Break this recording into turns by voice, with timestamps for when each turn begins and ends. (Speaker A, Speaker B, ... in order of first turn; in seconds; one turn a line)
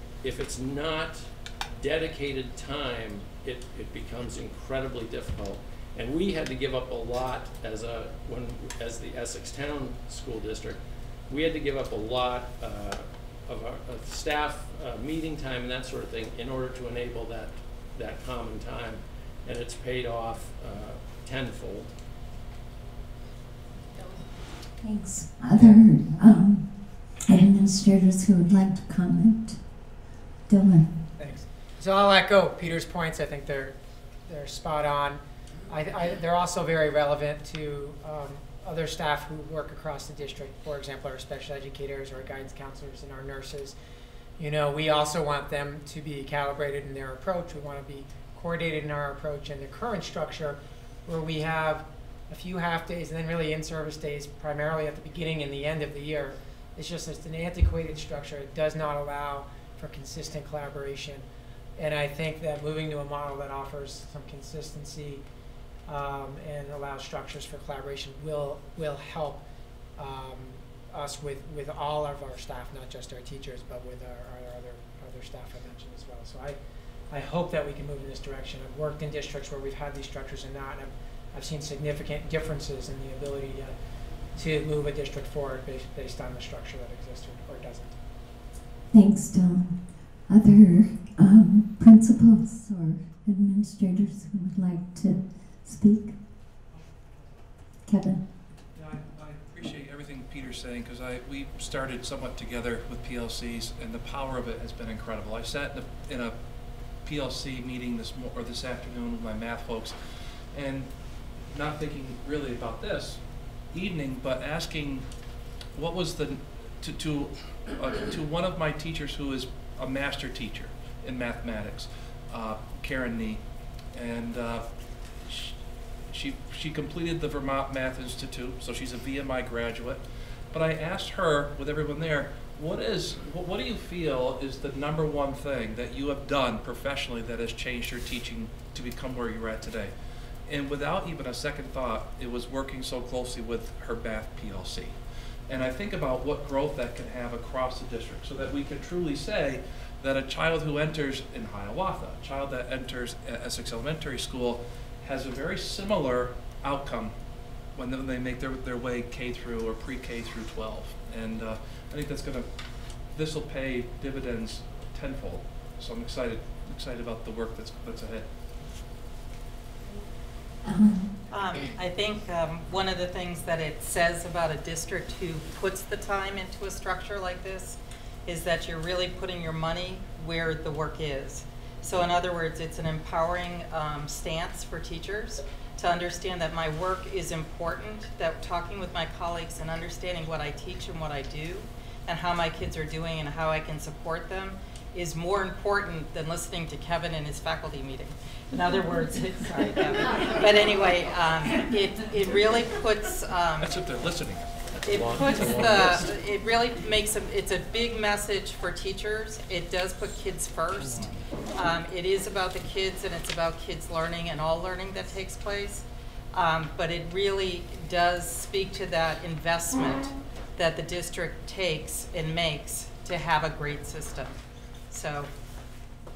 Speaker A: 0.2-21.9
Speaker B: 24.8-26.7
Speaker B: 27.2-29.6
Speaker B: 30.5-31.0
Speaker C: 31.2-43.8
Speaker C: 44.4-61.2
Speaker C: 61.8-65.2
Speaker C: 65.9-69.4
Speaker C: 70.0-76.6
Speaker C: 77.1-83.8
Speaker C: 84.3-87.9
Speaker B: 88.9-96.1
Speaker D: 96.7-97.2
Speaker B: 97.8-98.2
Speaker D: 98.7-106.4
Speaker D: 107.0-109.9
Speaker D: 110.5-110.9
Speaker D: 111.5-115.1
Speaker D: 115.7-125.6
Speaker D: 126.1-139.9
Speaker D: 140.5-157.1
Speaker D: 157.7-162.6
Speaker D: 163.1-168.3
Speaker B: 170.6-171.1
Speaker E: 171.3-203.8
Speaker D: 203.6-205.7
Speaker E: 204.8-224.3
Speaker A: 204.9-206.1
Speaker E: 224.9-225.3